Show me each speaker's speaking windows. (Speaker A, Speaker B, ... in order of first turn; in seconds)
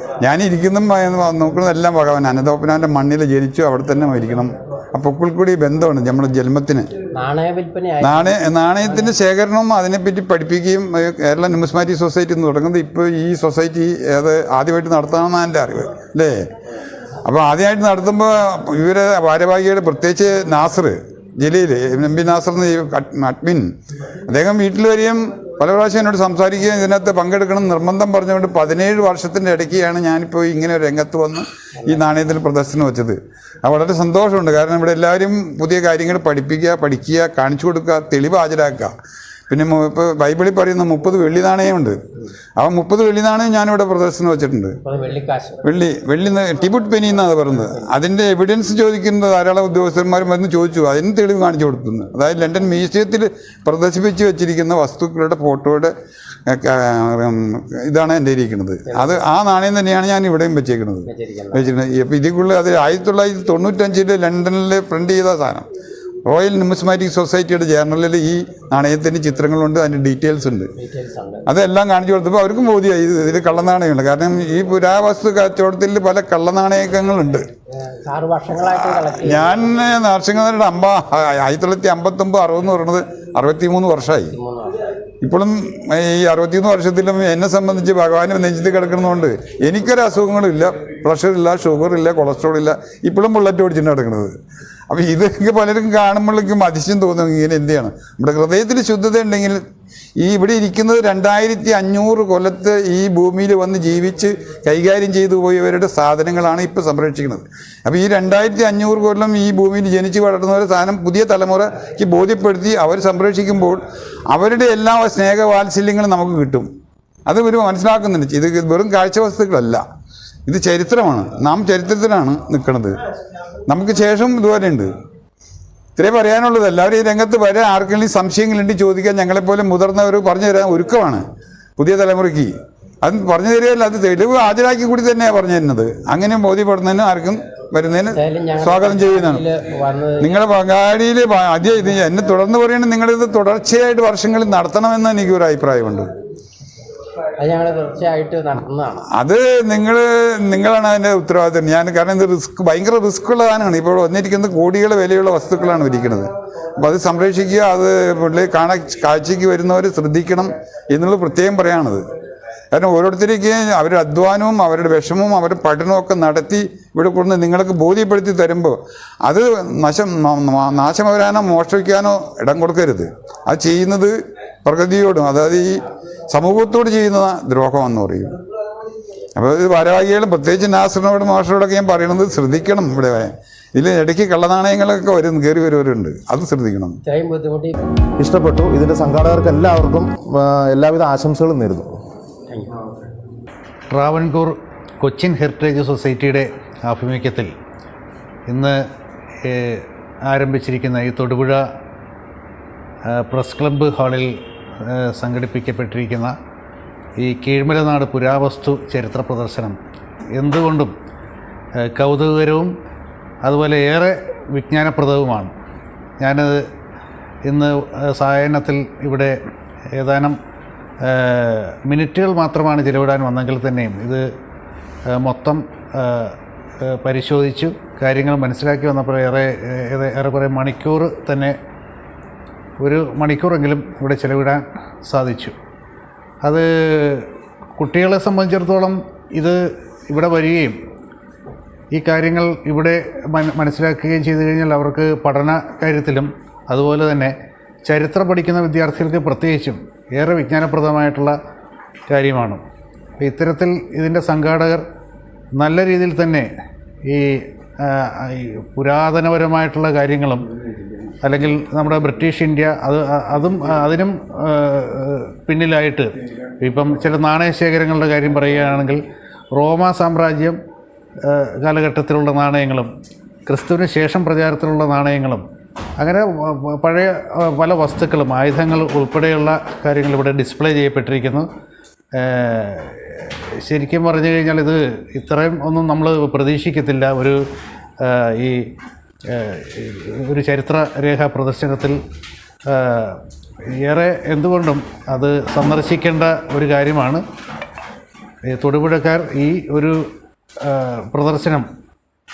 Speaker A: 0.2-6.9, 8.0-16.3, 17.2-23.7, 24.3-38.9, 39.5-42.0, 42.6-44.8, 45.6-55.9, 56.5-65.7, 66.2-70.7, 71.5-77.4, 78.6-84.3, 85.2-94.3, 94.9-99.6, 100.2-116.7, 117.2-119.8, 120.5-123.0, 123.7-124.9, 126.0-131.2, 131.8-132.5, 133.0-139.4, 140.2-146.1, 149.1-156.3, 156.8-162.0, 162.7-175.8, 176.3-178.3, 179.3-187.0
Speaker B: 7.1-9.2, 44.8-45.6, 58.9-59.2, 61.1-61.7, 70.8-71.4, 78.0-79.7, 84.3-84.8, 138.1-140.3, 147.4-149.0, 187.0-187.7
Speaker C: 188.2-191.9
Speaker D: 193.9-197.5, 198.5-198.8, 199.4-201.6, 203.1-204.3, 204.8-206.3, 207.2-209.8, 210.4-210.9, 211.8-212.7, 213.4-215.5, 216.2-216.6, 217.4-219.3, 220.0-220.3, 221.0-224.2, 225.2-226.3, 227.0-231.5, 232.8-235.5, 236.4-239.6, 240.1-240.8, 241.9-247.3, 247.8-251.3, 252.1-252.6, 253.2-254.8, 255.6-256.5, 257.1-260.5, 261.2-269.0, 269.5-270.6, 271.3-272.9, 273.5-275.4, 276.0-281.5, 282.2-287.4, 288.0-288.6, 289.3-292.0, 292.7-293.2, 293.8-297.2, 298.5-300.0, 300.6-301.7